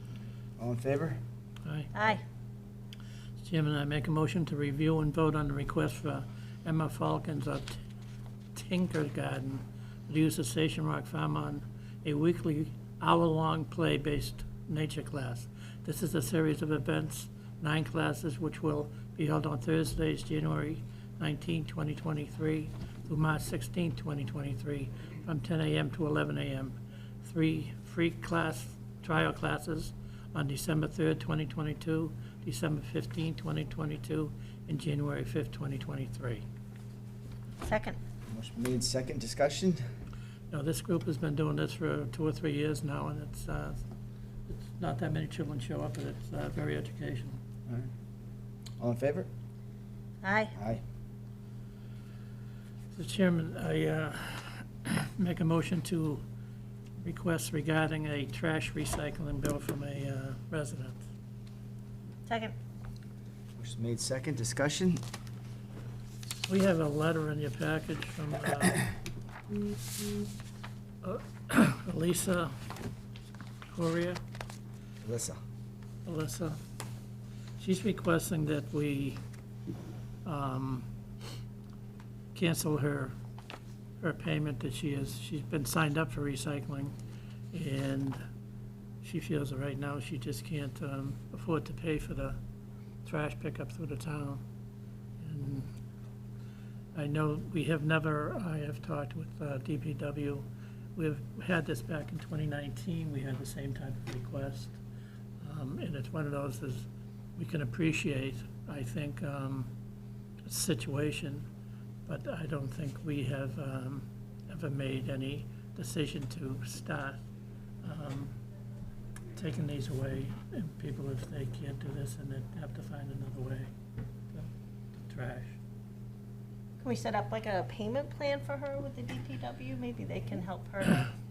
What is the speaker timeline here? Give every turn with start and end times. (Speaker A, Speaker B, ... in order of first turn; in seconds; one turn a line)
Speaker A: 0.6-1.2
Speaker B: 1.6-1.9
Speaker C: 1.9-2.2
Speaker B: 3.4-7.8
Speaker B: 8.5-36.4
Speaker C: 37.6-38.0
Speaker A: 38.3-39.8
Speaker B: 40.5-43.8
Speaker B: 44.5-47.4
Speaker A: 48.8-49.3
Speaker C: 50.2-50.5
Speaker A: 50.5-50.8
Speaker B: 52.9-56.2
Speaker B: 57.0-61.0
Speaker C: 62.2-62.5
Speaker A: 63.6-65.0
Speaker B: 66.5-68.9
Speaker B: 71.0-72.6
Speaker B: 73.7-74.2
Speaker A: 75.0-75.4
Speaker B: 76.0-76.6
Speaker B: 77.6-79.2
Speaker B: 80.2-80.9
Speaker B: 82.3-83.1
Speaker B: 84.0-86.9
Speaker B: 87.5-88.2
Speaker B: 89.0-92.4
Speaker B: 93.0-94.4
Speaker B: 95.2-95.7
Speaker B: 96.9-104.8
Speaker B: 105.4-109.7
Speaker B: 110.5-111.5
Speaker B: 112.0-117.2
Speaker B: 117.8-118.3
Speaker B: 119.3-123.7
Speaker B: 124.3-125.6
Speaker C: 126.8-131.1